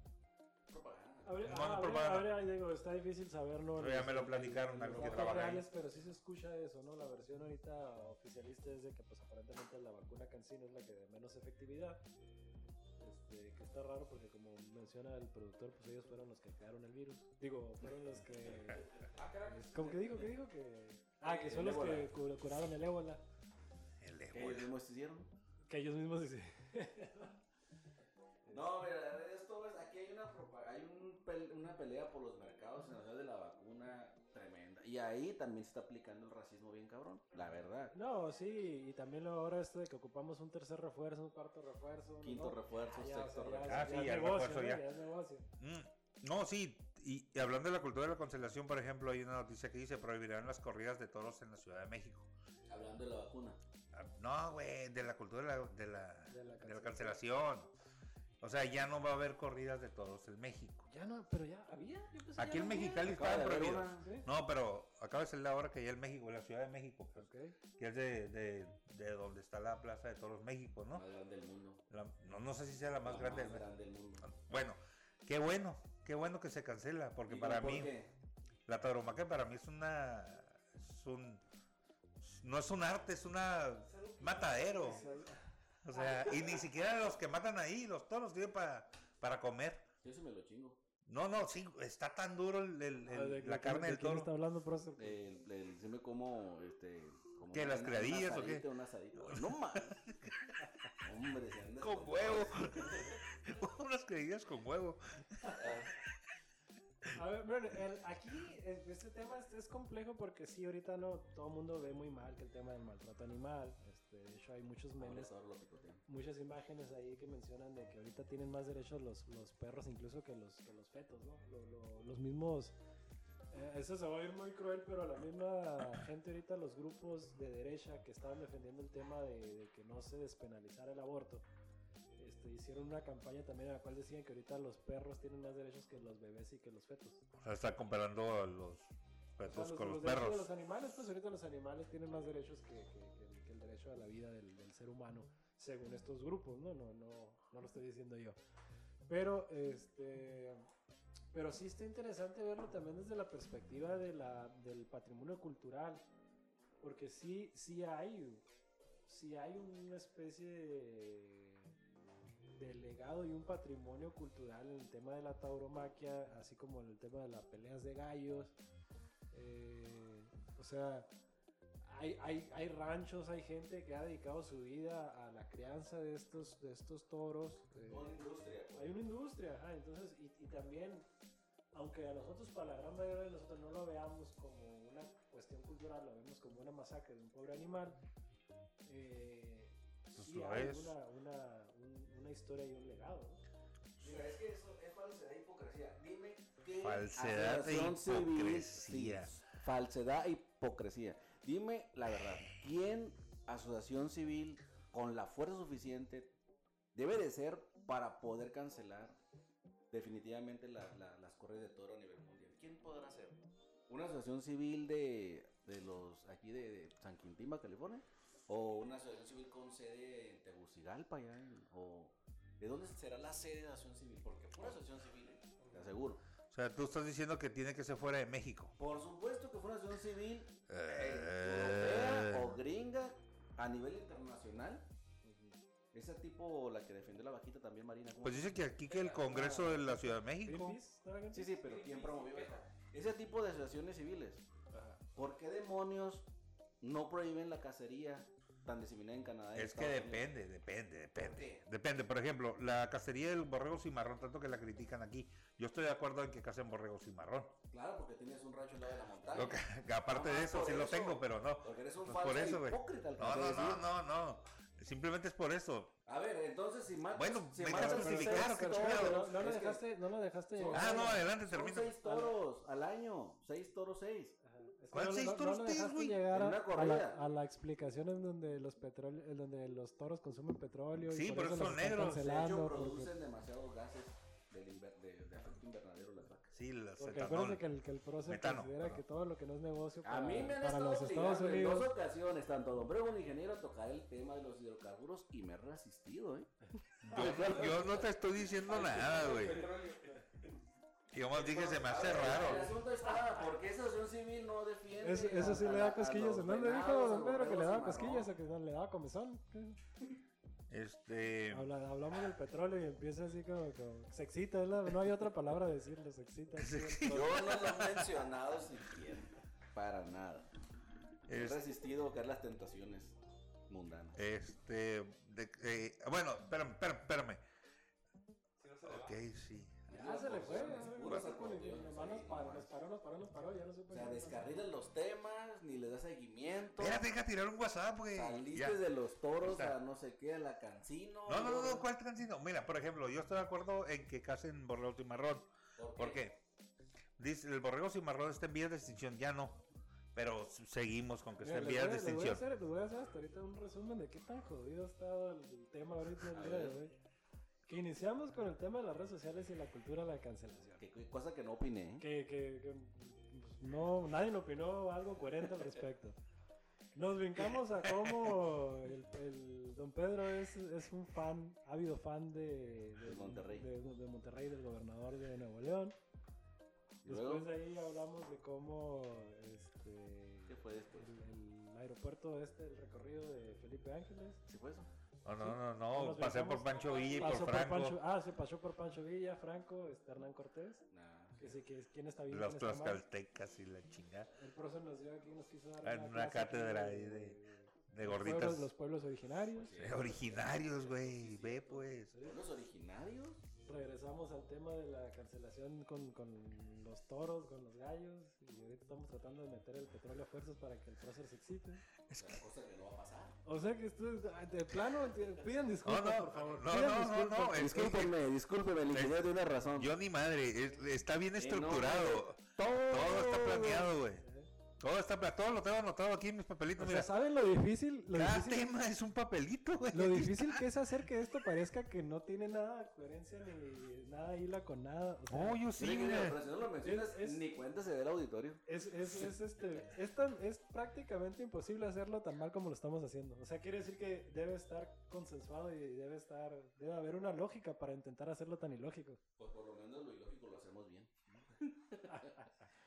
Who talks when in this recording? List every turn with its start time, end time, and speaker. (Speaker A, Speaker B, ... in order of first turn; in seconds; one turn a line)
Speaker A: 0.7-1.4
Speaker B: 1.2-12.0
Speaker C: 1.4-2.4
Speaker C: 3.8-5.7
Speaker B: 13.0-18.9
Speaker D: 19.1-20.3
Speaker B: 19.4-23.2
Speaker A: 21.2-22.1
Speaker C: 24.0-24.7
Speaker A: 24.3-25.3
Speaker B: 25.7-27.3
Speaker A: 28.5-37.9
Speaker B: 37.9-45.5
Speaker A: 42.2-44.1
Speaker C: 43.6-44.8
Speaker C: 45.6-52.3
Speaker A: 52.7-53.6
Speaker C: 53.9-57.7
Speaker B: 56.3-57.2
Speaker C: 58.4-60.9
Speaker B: 60.9-63.2
Speaker C: 62.4-71.0
Speaker A: 62.8-64.1
Speaker B: 64.0-64.3
Speaker B: 67.1-67.5
Speaker A: 70.9-71.8
Speaker C: 71.9-73.7
Speaker A: 73.0-74.3
Speaker C: 74.2-77.9
Speaker A: 77.3-78.1
Speaker C: 78.7-81.4
Speaker C: 82.2-85.0
Speaker D: 83.8-85.2
Speaker B: 84.8-85.4
Speaker C: 85.8-89.8
Speaker D: 86.0-86.5
Speaker A: 90.0-90.8
Speaker C: 91.0-94.3
Speaker B: 93.0-95.2
Speaker A: 95.0-100.0
Speaker C: 97.5-100.5
Speaker A: 101.0-103.2
Speaker C: 101.8-105.8
Speaker A: 105.5-105.9
Speaker B: 107.1-115.3
Speaker A: 115.0-116.0
Speaker B: 116.1-122.8
Speaker B: 123.5-131.4
Speaker B: 132.2-137.2
Speaker C: 137.4-140.5
Speaker B: 139.4-148.4
Speaker B: 149.1-150.7
Speaker B: 151.3-156.0
Speaker B: 156.8-158.4
Speaker B: 159.1-161.7
Speaker B: 162.6-168.5
Speaker B: 169.3-171.1
Speaker B: 171.8-178.2
Speaker A: 177.9-178.9
Speaker B: 178.7-181.1
Speaker B: 181.7-188.0
Speaker B: 188.8-193.4
Speaker C: 190.1-190.9
Speaker A: 194.0-206.3
Speaker C: 196.8-199.4
Speaker A: 206.9-209.2
Speaker A: 209.9-226.2
Speaker B: 225.6-225.9
Speaker C: 226.5-228.7
Speaker A: 228.8-234.9
Speaker C: 230.7-232.6
Speaker B: 235.2-235.6
Speaker A: 235.9-238.6
Speaker C: 238.2-240.8
Speaker B: 239.0-241.6
Speaker A: 241.3-244.4
Speaker D: 241.6-242.7
Speaker B: 244.7-245.0
Speaker A: 245.1-246.3
Speaker A: 246.8-250.3
Speaker C: 249.5-257.5
Speaker A: 251.2-251.6
Speaker A: 257.7-263.8
Speaker C: 259.3-265.9
Speaker A: 266.1-269.8
Speaker C: 267.1-269.3
Speaker B: 267.7-271.3
Speaker A: 270.6-274.4
Speaker C: 270.7-271.9
Speaker B: 272.0-272.3
Speaker B: 274.4-283.1
Speaker C: 274.9-276.2
Speaker A: 276.3-277.2
Speaker C: 281.0-282.2
Speaker A: 282.1-286.5
Speaker C: 286.5-287.6
Speaker B: 287.0-291.9
Speaker C: 288.2-289.0
Speaker A: 290.0-296.5
Speaker C: 297.0-299.7
Speaker A: 297.0-299.7
Speaker D: 297.2-297.8
Speaker D: 298.7-300.1
Speaker C: 301.1-302.8
Speaker A: 301.3-308.3
Speaker B: 305.0-309.8
Speaker C: 310.7-311.7
Speaker B: 311.5-317.6
Speaker C: 316.6-318.1
Speaker A: 317.1-320.5
Speaker C: 321.3-321.6
Speaker A: 321.3-323.1
Speaker A: 323.7-324.2
Speaker C: 324.1-327.4
Speaker D: 328.6-329.2
Speaker C: 328.8-329.8
Speaker A: 329.9-332.7
Speaker B: 329.9-334.6
Speaker A: 333.9-337.0
Speaker C: 336.8-338.8
Speaker A: 338.1-341.8
Speaker C: 339.4-339.8
Speaker C: 341.2-346.4
Speaker A: 345.8-346.2
Speaker C: 347.2-349.6
Speaker C: 350.1-352.4
Speaker B: 351.4-356.9
Speaker A: 356.3-356.8
Speaker B: 357.7-360.8
Speaker A: 360.8-362.1
Speaker B: 362.0-366.2
Speaker B: 366.9-375.9
Speaker C: 367.8-368.4
Speaker A: 373.0-373.7
Speaker A: 377.0-377.5
Speaker B: 377.1-384.4
Speaker A: 380.5-381.1
Speaker A: 384.4-384.9
Speaker C: 385.2-388.0
Speaker B: 385.4-390.8
Speaker D: 386.7-387.4
Speaker A: 390.9-391.6
Speaker B: 391.4-393.0
Speaker C: 392.3-394.3
Speaker B: 394.3-399.8
Speaker C: 395.8-397.4
Speaker C: 397.9-398.7
Speaker A: 399.5-403.4
Speaker C: 399.8-402.2
Speaker B: 403.6-411.8
Speaker C: 412.1-412.4
Speaker A: 412.1-413.4
Speaker B: 413.4-417.9
Speaker C: 415.8-418.1
Speaker A: 417.5-419.9
Speaker C: 418.9-424.2
Speaker A: 421.4-423.9
Speaker B: 424.2-424.5
Speaker C: 424.8-427.1
Speaker B: 426.8-428.7
Speaker C: 428.1-430.6
Speaker B: 429.9-435.6
Speaker C: 435.3-436.4
Speaker A: 435.8-438.6
Speaker B: 436.8-437.4
Speaker B: 438.6-449.2
Speaker A: 449.4-452.4